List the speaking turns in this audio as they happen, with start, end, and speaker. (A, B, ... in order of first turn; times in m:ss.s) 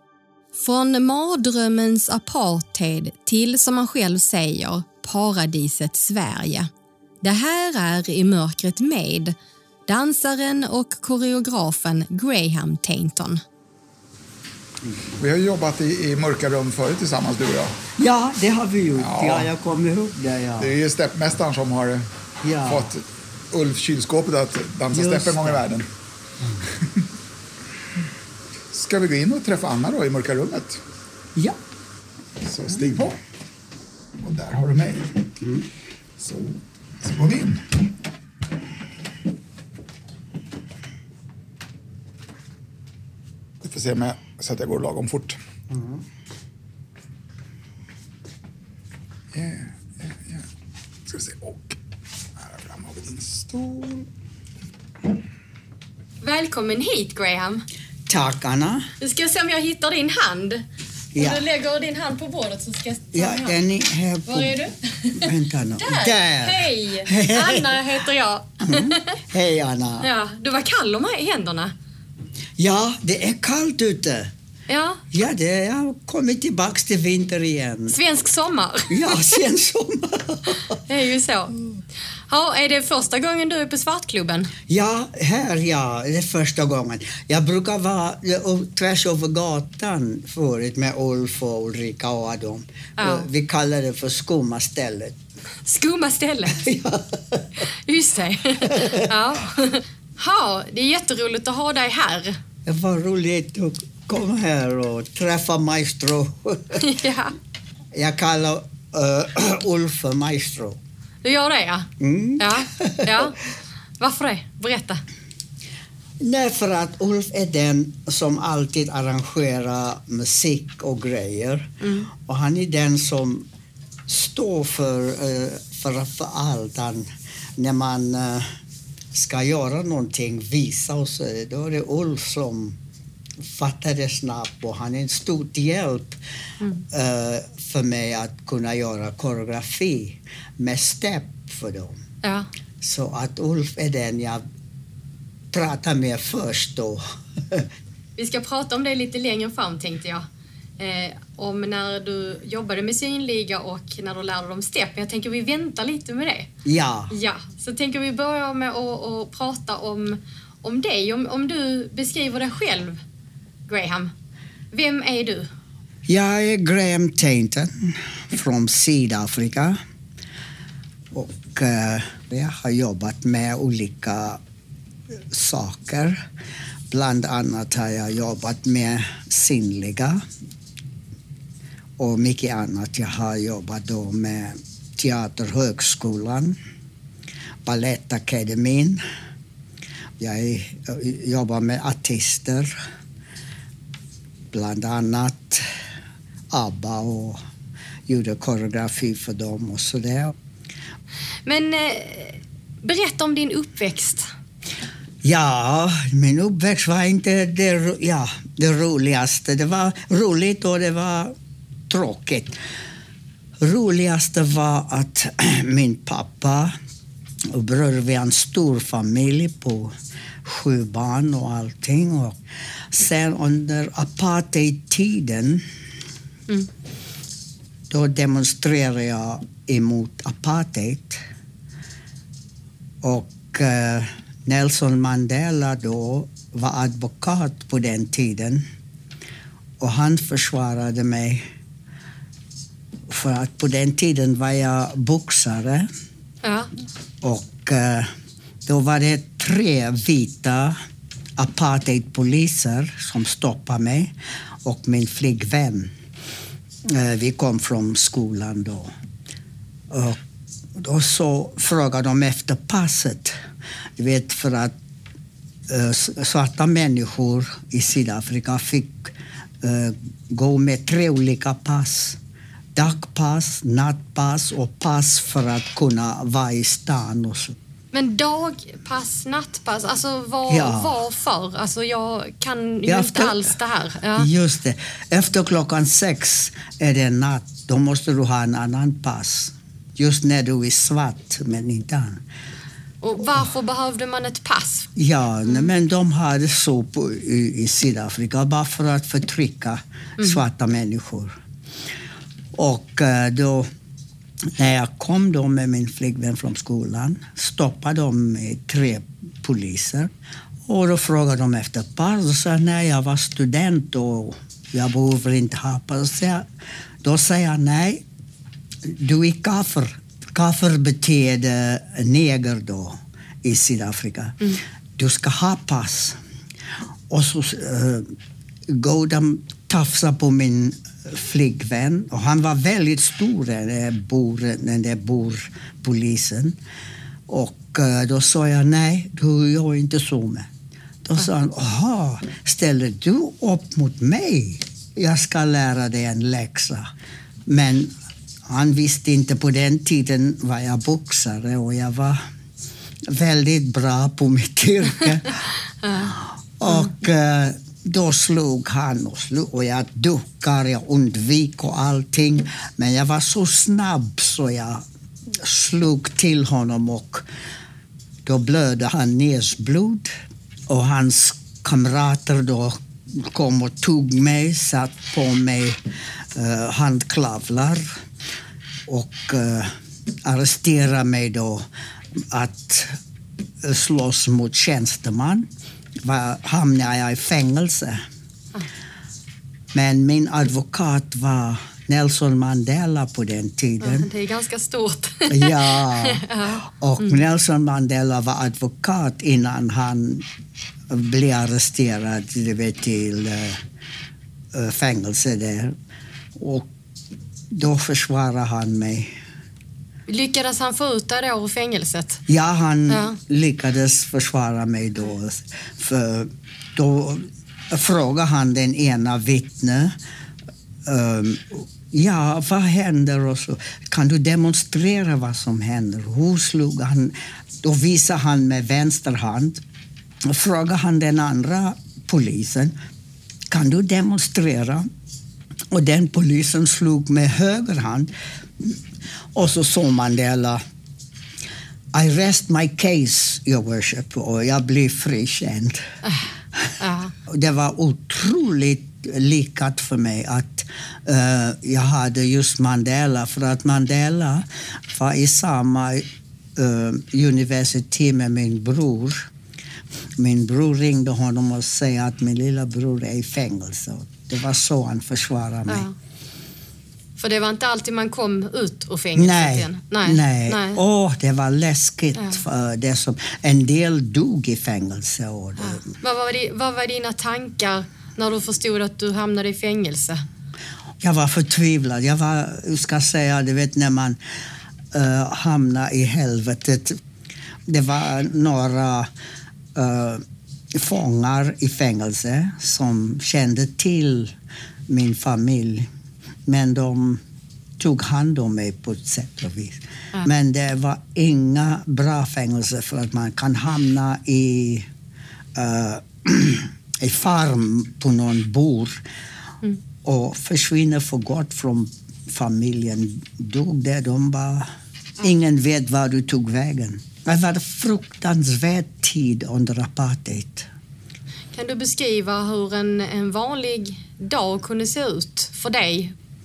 0:00.6-0:06.7 A
0:07.2-0:09.4 A
0:09.9-0:13.4 A
0:15.2-0:17.8 B
0:18.0-0:20.7 C
0:19.0-0:19.5 B
0:20.6-0:22.0 B
0:22.4-0:22.9 C
0:22.6-0:25.9 B
0:24.9-0:25.6 C
0:28.7-0:30.8 B
0:32.4-0:33.2 B
0:34.2-0:35.2 B
0:36.2-0:37.6 B
0:43.6-0:45.4 B
0:45.7-0:46.0 C
0:49.3-0:50.4 B
0:51.1-0:51.8 B
0:52.4-0:54.0 B
0:56.2-0:57.6 A
0:58.1-0:58.9 C
0:59.0-1:00.6 A
1:01.1-1:01.4 C
1:01.2-1:03.6 A
1:03.1-1:04.6 C
1:04.2-1:09.2 A
1:05.2-1:07.8 C
1:08.6-1:10.0 C
1:10.0-1:11.7 A
1:12.6-1:14.3 C
1:14.7-1:15.0 A
1:15.1-1:18.0 C
1:17.9-1:19.3 A
1:18.9-1:20.8 C
1:20.8-1:21.5 A
1:22.3-1:24.5 A
1:24.7-1:35.2 C
1:33.0-1:33.3 A
1:35.6-1:36.7 A
1:36.5-1:37.6 C
1:37.8-1:42.4 A
1:38.6-1:39.1 C
1:42.6-1:46.8 C
1:46.8-1:47.3 A
1:47.9-1:50.8 C
1:51.2-1:53.4 A
1:52.0-1:53.3 C
1:54.0-1:55.0 A
1:56.2-2:03.5 C
2:01.8-2:02.1 A
2:04.1-2:08.5 C
2:09.1-2:12.8 C
2:13.4-2:16.2 C
2:16.9-2:22.0 C
2:22.2-2:22.5 A
2:22.8-2:24.4 C
2:25.5-2:27.7 C
2:28.2-2:30.2 A
2:30.8-2:36.5 A
2:36.6-2:37.1 C
2:37.1-2:43.0 A
2:43.7-2:44.1 A
2:44.7-2:45.5 A
2:46.1-2:49.8 C
2:51.1-2:54.4 C
2:55.3-2:56.2 C
2:56.9-3:00.2 C
3:02.0-3:06.6 C
3:07.6-3:09.0 C
3:10.2-3:12.8 C
3:14.5-3:15.6 C
3:16.5-3:17.4 C
3:18.1-3:20.4 C
3:21.4-3:24.3 A
3:25.2-3:31.3 C
3:31.9-3:32.6 C
3:33.6-3:36.7 C
3:37.5-3:39.9 C
3:40.4-3:42.4 C
3:42.9-3:45.6 C
3:47.9-3:51.2 C
3:53.0-3:58.6 C
3:59.8-4:01.4 C
4:03.1-4:05.9 C
4:06.4-4:06.7 A
4:07.2-4:08.1 C
4:08.6-4:10.8 C
4:11.4-4:15.9 C
4:16.8-4:18.9 C
4:19.9-4:20.2 C
4:20.8-4:23.3 C
4:24.0-4:24.7 C
4:25.7-4:32.2 C
4:32.7-4:37.6 C
4:37.9-4:44.3 A
4:40.5-4:40.9 C
4:42.8-4:43.5 C
4:44.2-4:52.2 C
4:53.0-4:54.9 A
4:55.0-5:01.3 C
4:55.4-4:55.7 A
5:02.5-5:03.7 C
5:04.6-5:10.1 C
5:10.7-5:16.4 C
5:17.0-5:18.0 C
5:18.8-5:24.4 C
5:25.0-5:26.2 C
5:27.1-5:28.1 C
5:28.7-5:36.6 C
5:37.3-5:40.5 C
5:41.0-5:46.9 C
5:47.5-5:47.9 C
5:48.5-5:52.2 C
5:53.1-5:55.4 C
5:55.8-5:56.1 A
5:56.6-6:07.3 C
5:56.7-5:56.9 A
6:08.2-6:10.1 C
6:10.7-6:15.8 C
6:16.3-6:18.0 C
6:18.9-6:19.7 C
6:20.2-6:23.0 C
6:23.6-6:25.5 C
6:26.0-6:28.0 C
6:29.7-6:34.1 C
6:33.8-6:37.2 A
6:35.3-6:40.2 C
6:40.9-6:43.6 C
6:44.5-6:45.8 C
6:46.4-6:46.7 C
6:47.5-6:49.1 C
6:50.1-6:52.2 A
6:52.3-7:00.0 C
6:52.9-6:53.2 A
7:00.8-7:09.6 C
7:10.2-7:12.8 C
7:13.5-7:14.9 C
7:15.7-7:18.8 C
7:19.3-7:20.6 C
7:21.9-7:25.8 C
7:26.8-7:27.1 A
7:27.2-7:39.3 C
7:40.2-7:45.8 C
7:45.7-7:45.9 A
7:47.2-7:50.8 A
7:49.1-7:55.8 C
7:55.6-8:00.2 A
8:01.0-8:04.2 C
8:04.9-8:07.0 C
8:07.7-8:09.1 C
8:09.7-8:14.3 C
8:14.9-8:15.9 C
8:16.4-8:17.2 C
8:17.8-8:24.9 C
8:25.6-8:29.0 C
8:30.0-8:34.7 C
8:35.2-8:40.7 C
8:41.5-8:46.1 A